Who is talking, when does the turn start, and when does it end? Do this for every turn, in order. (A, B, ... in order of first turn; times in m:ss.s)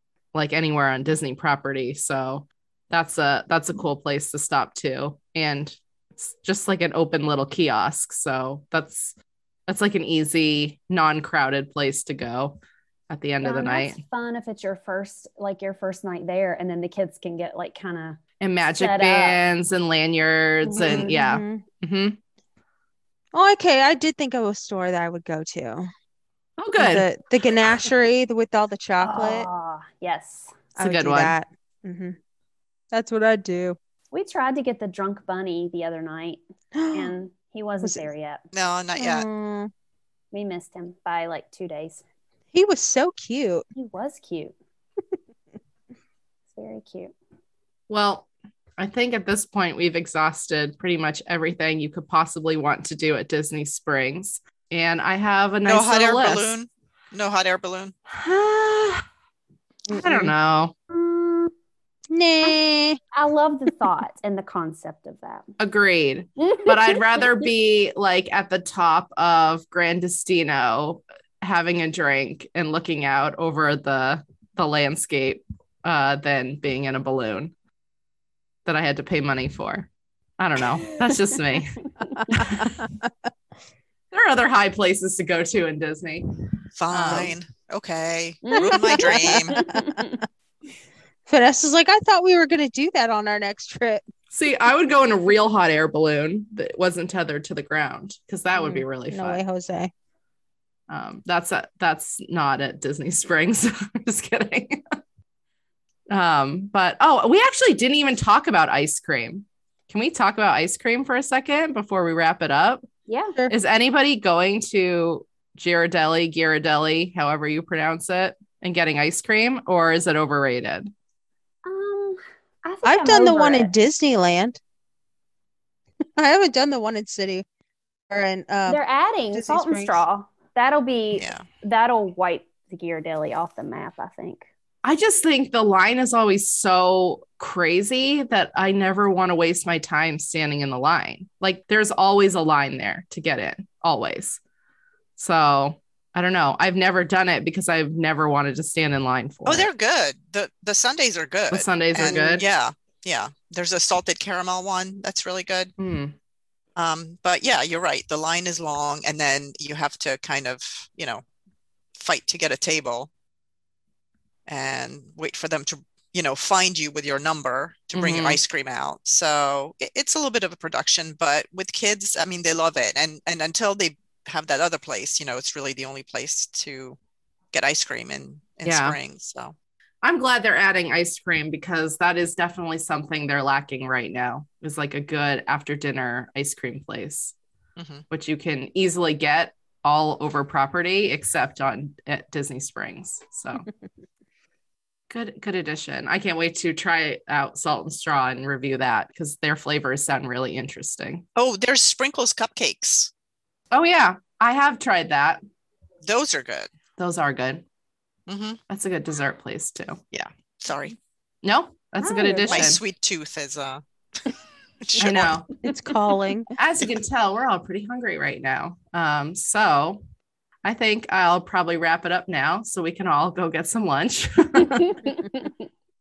0:00.3-0:09.2 A
0:09.7-0:12.6 A
0:13.1-0:14.0 A
0:13.4-0:18.2 B
0:18.4-0:22.2 A
0:18.8-0:19.4 B
0:20.6-0:21.1 B
0:20.8-0:21.6 C
0:23.3-0:25.9 C
0:26.6-0:27.1 A
0:26.8-0:29.5 C
0:29.0-0:30.6 B
0:30.8-0:31.4 A
0:30.8-0:32.2 C
0:32.9-0:33.8 C
0:34.1-0:36.4 B
0:36.8-0:37.1 C
0:36.9-0:38.4 B
0:38.5-0:39.3 D
0:39.0-0:39.7 C
0:40.3-0:42.0 B
0:42.5-0:43.6 C
0:43.8-0:44.5 B
0:46.5-0:47.1 B
0:47.9-0:56.5 A
0:55.7-0:58.0 D
0:58.1-0:59.0 A
0:59.9-1:00.3 C
0:59.9-1:00.7 A
1:00.9-1:01.5 B
1:02.1-1:03.0 C
1:03.1-1:05.5 B
1:05.6-1:17.5 A
1:06.4-1:07.2 B
1:18.7-1:22.8 A
1:22.1-1:22.4 B
1:22.3-1:23.1 C
1:24.1-1:26.3 A
1:26.8-1:29.6 D
1:26.9-1:27.4 A
1:28.4-1:30.2 B
1:29.0-1:30.1 C
1:31.3-1:34.0 C
1:34.3-1:39.4 A
1:38.6-1:38.8 B
1:39.1-1:39.9 C
1:40.9-1:44.8 A
1:46.1-1:52.8 A
1:53.1-1:53.4 B
1:53.5-2:00.9 A
2:01.6-2:03.7 B
2:02.8-2:04.6 C
2:06.2-2:07.4 C
2:08.1-2:08.8 C
2:08.7-2:14.5 B
2:09.3-2:10.0 C
2:11.2-2:11.5 D
2:14.8-2:24.4 A
2:25.2-2:29.7 A
2:29.5-2:35.7 D
2:31.5-2:32.4 A
2:32.0-2:32.4 B
2:35.8-2:36.1 A
2:36.8-2:41.2 D
2:42.0-2:43.1 D
2:44.5-2:57.0 D
2:47.9-2:48.4 A
2:57.5-2:59.6 D
2:58.6-2:59.0 A
3:00.0-3:07.4 A
3:07.8-3:08.0 D
3:08.1-3:13.7 A
3:15.1-3:21.2 A
3:21.4-3:23.1 D
3:23.7-3:25.4 A
3:26.0-3:26.7 D
3:27.0-3:27.6 A
3:28.3-3:28.6 D
3:28.7-3:30.0 A
3:30.1-3:31.0 D
3:31.4-3:32.8 A
3:32.0-3:32.7 B
3:32.5-3:33.8 D
3:34.8-3:35.3 D
3:35.0-3:35.6 A
3:35.0-3:36.5 C
3:36.6-3:40.0 A
3:40.6-3:45.1 A
3:44.6-3:45.5 B